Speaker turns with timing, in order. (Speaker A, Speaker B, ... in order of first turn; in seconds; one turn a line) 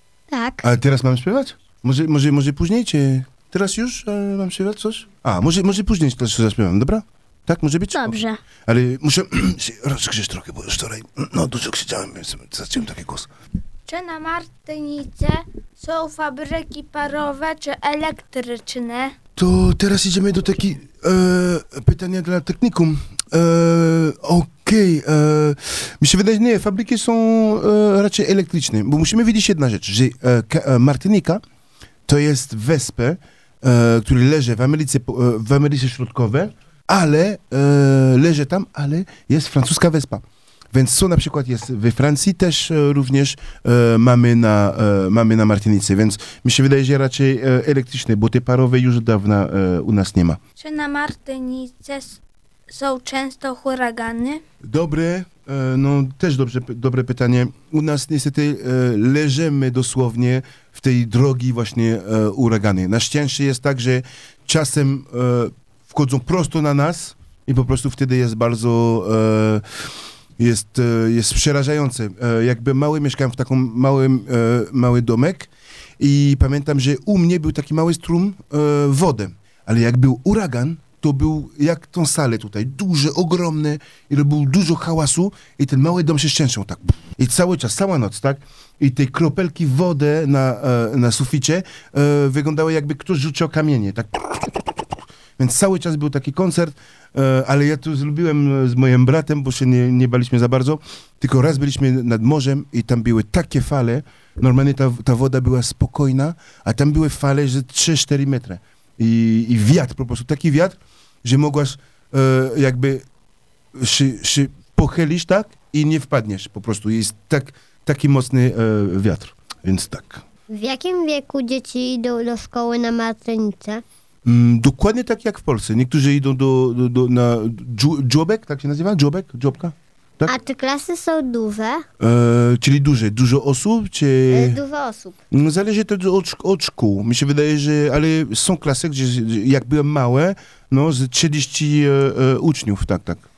Speaker A: 0.3-0.6
Speaker B: 0.6-13.3
Speaker C: 13.9-19.1
Speaker B: 19.4-31.4
Speaker B: 32.1-50.4
Speaker C: 50.6-54.4
Speaker B: 54.6-69.6
Speaker B: 70.4-94.8
Speaker B: 95.4-113.0
Speaker B: 113.8-120.2
Speaker A: 120.5-123.8
Speaker B: 124.3-130.3
Speaker A: 130.3-131.9
Speaker B: 132.0-134.6
Speaker A: 134.3-135.2
Speaker B: 135.3-143.2